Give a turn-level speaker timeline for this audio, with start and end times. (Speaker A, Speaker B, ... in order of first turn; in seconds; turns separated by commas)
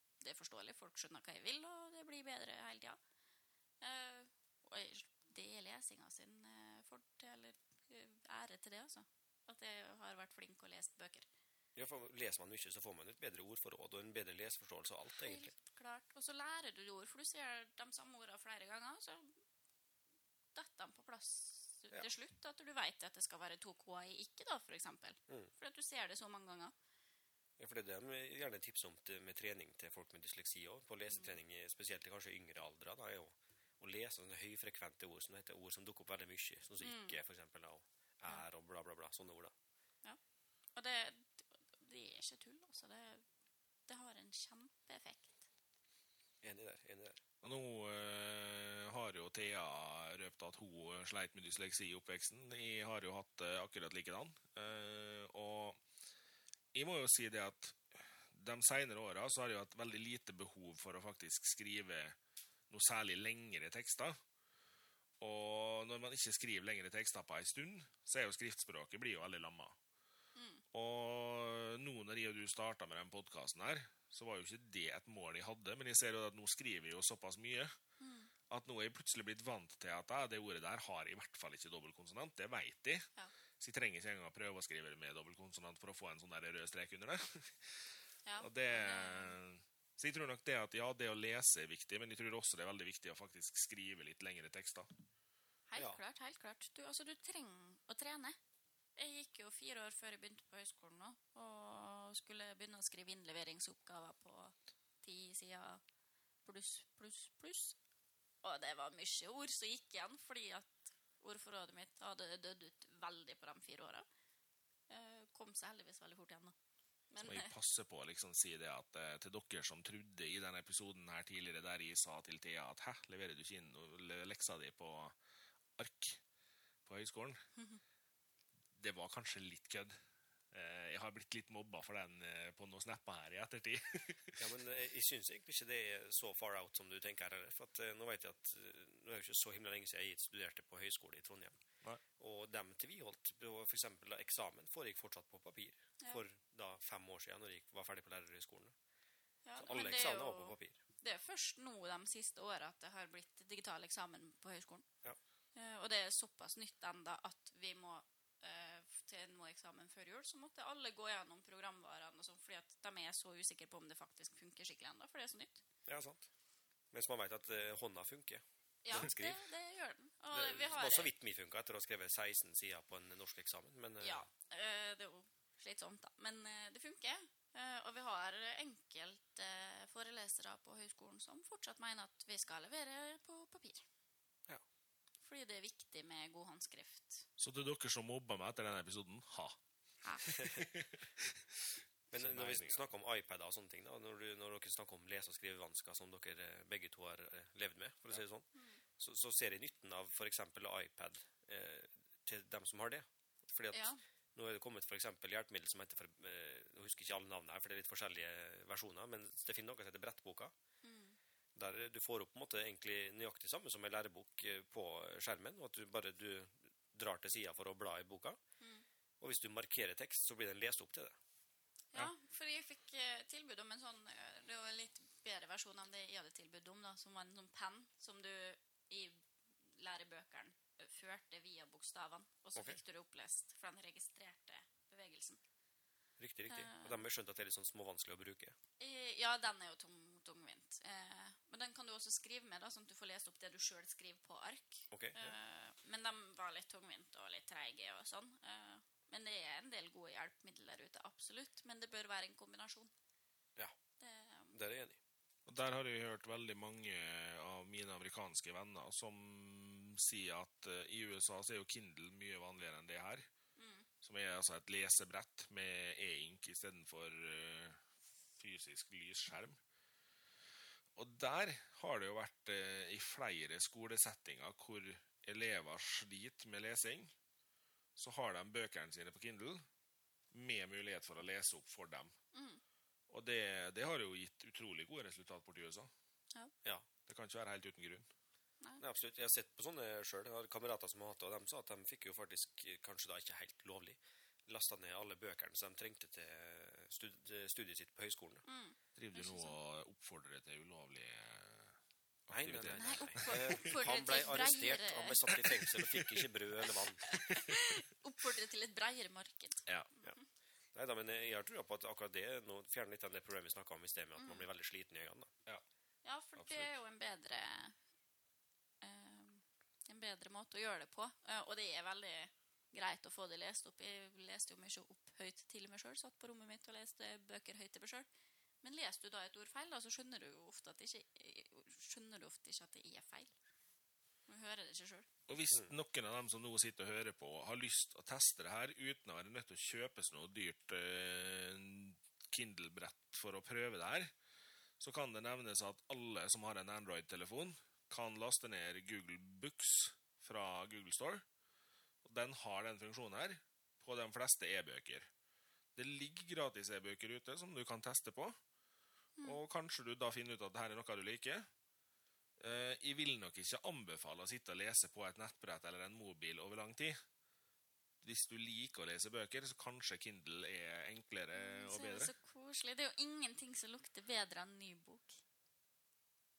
Speaker A: 0.2-3.0, Speaker A: 3.8-11.3, Speaker B: 11.8-15.5, Speaker A: 15.2-19.4, Speaker A: 20.5-26.7, Speaker B: 27.6-39.5, Speaker A: 36.8-37.2, Speaker A: 40.7-43.2, Speaker A: 43.9-45.4, Speaker B: 46.4-47.2, Speaker C: 47.4-55.8, Speaker C: 56.7-62.1, Speaker C: 62.7-64.2, Speaker C: 65.2-69.8, Speaker A: 70.3-70.6, Speaker C: 70.7-77.7, Speaker A: 78.0-78.3, Speaker C: 78.5-83.1, Speaker C: 83.6-87.9, Speaker A: 88.2-89.3, Speaker C: 88.4-94.9, Speaker A: 95.7-98.4, Speaker B: 95.7-96.0, Speaker A: 99.0-105.8, Speaker A: 106.4-107.8, Speaker A: 108.4-114.0, Speaker A: 114.9-116.5, Speaker A: 117.1-117.5, Speaker C: 117.2-125.2, Speaker C: 125.8-126.2, Speaker C: 126.8-127.4, Speaker A: 127.5-127.8, Speaker C: 128.7-129.9, Speaker C: 130.5-134.5, Speaker B: 134.4-141.6, Speaker B: 142.2-148.7, Speaker A: 149.4-154.8, Speaker B: 149.6-150.8, Speaker A: 155.5-165.6, Speaker B: 165.8-166.3, Speaker B: 166.9-169.4, Speaker A: 168.8-171.1, Speaker B: 170.3-174.3, Speaker A: 174.0-183.8, Speaker A: 185.2-187.2, Speaker C: 187.4-189.6, Speaker C: 190.2-192.8, Speaker B: 190.3-190.7, Speaker B: 192.1-210.5, Speaker A: 198.5-198.8, Speaker A: 203.7-204.0, Speaker A: 210.8-211.2, Speaker B: 211.5-218.4, Speaker B: 219.2-221.2, Speaker A: 221.9-235.4, Speaker B: 236.2-238.6, Speaker A: 236.5-237.0, Speaker A: 238.8-252.9, Speaker B: 244.9-245.3, Speaker A: 254.0-254.5, Speaker B: 254.5-255.0, Speaker C: 255.4-263.3, Speaker A: 263.6-263.9, Speaker C: 264.0-267.8, Speaker C: 268.4-269.6, Speaker C: 270.9-277.1, Speaker C: 277.9-279.6, Speaker C: 280.3-282.1, Speaker A: 282.3-282.6, Speaker C: 283.1-285.9, Speaker C: 287.1-288.1, Speaker B: 288.8-298.4, Speaker A: 298.4-299.6, Speaker C: 298.9-303.9, Speaker B: 302.3-307.2, Speaker A: 302.8-305.3, Speaker C: 305.3-306.3, Speaker A: 307.1-310.2, Speaker C: 307.2-307.6, Speaker B: 310.7-315.3, Speaker A: 314.2-314.4, Speaker A: 316.0-317.8, Speaker C: 316.4-316.7, Speaker A: 318.8-328.1, Speaker A: 328.6-333.3, Speaker A: 334.3-335.1, Speaker C: 335.3-344.1, Speaker C: 344.8-351.2, Speaker C: 352.0-355.1, Speaker C: 355.8-358.4, Speaker C: 359.2-361.5, Speaker C: 362.4-367.0, Speaker C: 368.0-372.1, Speaker A: 371.3-375.2